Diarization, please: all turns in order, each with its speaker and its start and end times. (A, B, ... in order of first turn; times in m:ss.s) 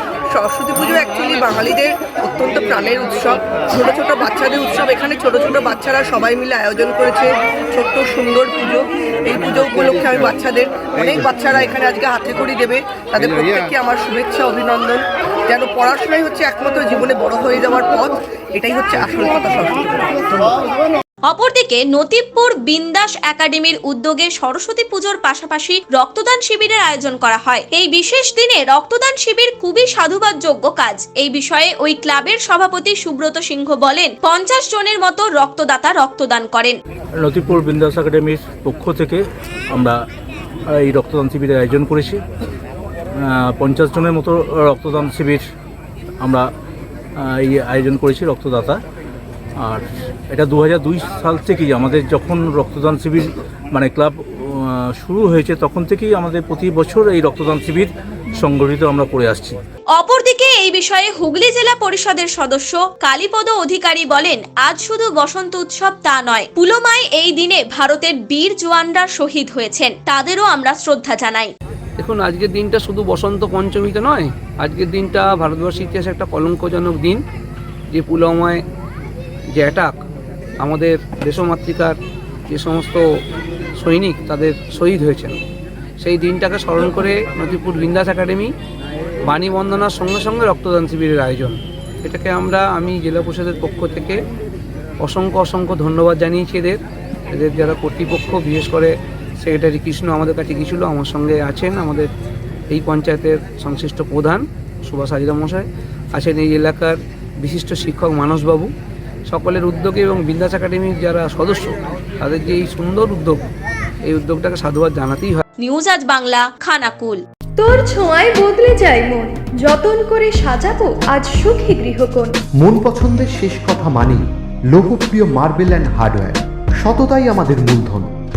0:00.3-0:20.6 A
0:21.3-0:36.8 B
0:37.2-0:39.2 C
0:39.7-0:40.0 C
0:40.7-0:42.2 C
0:43.2-0:45.5 C
0:46.2-0:46.5 C
0:47.2-0:48.8 C
0:49.6-0:59.6 C
1:00.0-1:11.5 B
1:12.0-1:17.2 D
1:17.9-1:18.6 D
1:19.5-1:20.0 D
1:20.6-1:22.0 D
1:22.5-1:23.0 D
1:23.8-1:25.4 D
1:26.0-1:28.5 D
1:29.2-1:34.2 D
1:35.0-1:42.1 D
1:42.7-1:48.7 D
1:49.3-1:53.4 D
1:54.0-1:55.4 D
1:55.6-1:57.2 B
1:57.6-2:02.3 E
2:02.6-2:08.1 F